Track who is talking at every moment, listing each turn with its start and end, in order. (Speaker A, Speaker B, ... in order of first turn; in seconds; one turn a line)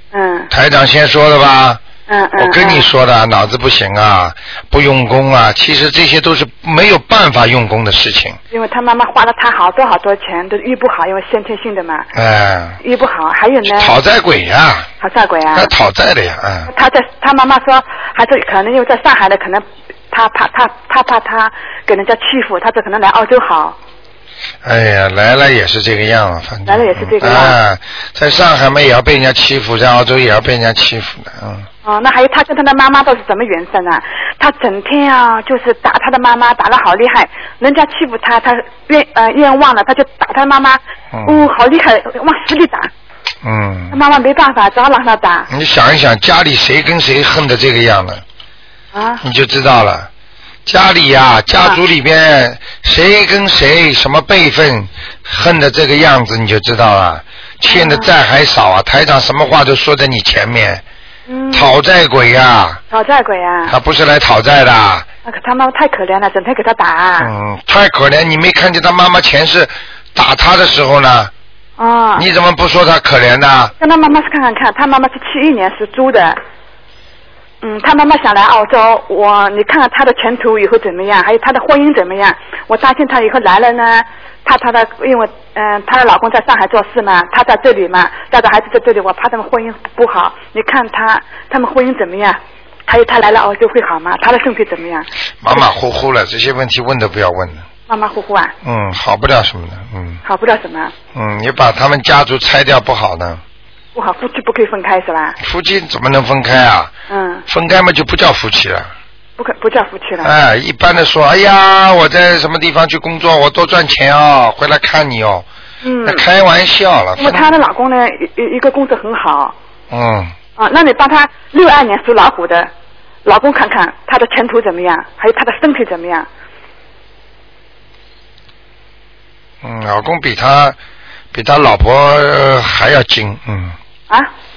Speaker A: 0.1-0.5
Speaker B: 0.5-1.8
Speaker A: 2.1-2.9
Speaker B: 2.4-8.4
Speaker A: 8.5-12.1
Speaker B: 12.1-12.8
Speaker A: 12.8-14.0
Speaker B: 13.7-14.9
Speaker A: 15.0-15.7
Speaker B: 15.5-16.7
Speaker A: 16.7-23.8
Speaker B: 24.6-31.7
Speaker A: 26.7-27.6
Speaker A: 31.9-42.9
Speaker B: 41.1-41.5
Speaker B: 43.4-44.0
Speaker A: 43.9-45.5
Speaker B: 45.5-48.2
Speaker A: 48.9-49.2
Speaker B: 49.2-50.1
Speaker B: 50.7-60.8
Speaker A: 57.7-58.1
Speaker A: 61.3-61.8
Speaker B: 61.5-62.8
Speaker A: 62.9-63.8
Speaker B: 63.7-65.1
Speaker A: 65.3-67.3
Speaker B: 67.2-71.3
Speaker A: 71.8-72.3
Speaker B: 72.2-73.7
Speaker A: 73.8-76.4
Speaker A: 77.6-95.6
Speaker B: 95.4-97.7
Speaker A: 97.9-98.5
Speaker B: 98.6-100.2
Speaker A: 100.2-100.9
Speaker B: 101.1-103.4
Speaker A: 104.0-105.4
Speaker B: 105.4-106.9
Speaker A: 107.1-107.5
Speaker B: 107.5-108.9
Speaker A: 109.4-110.3
Speaker B: 110.2-115.5
Speaker A: 115.8-116.3
Speaker B: 116.0-117.5
Speaker A: 117.2-119.5
Speaker B: 119.9-120.3
Speaker A: 120.6-122.7
Speaker A: 123.2-126.3
Speaker B: 129.6-130.8
Speaker B: 131.3-133.8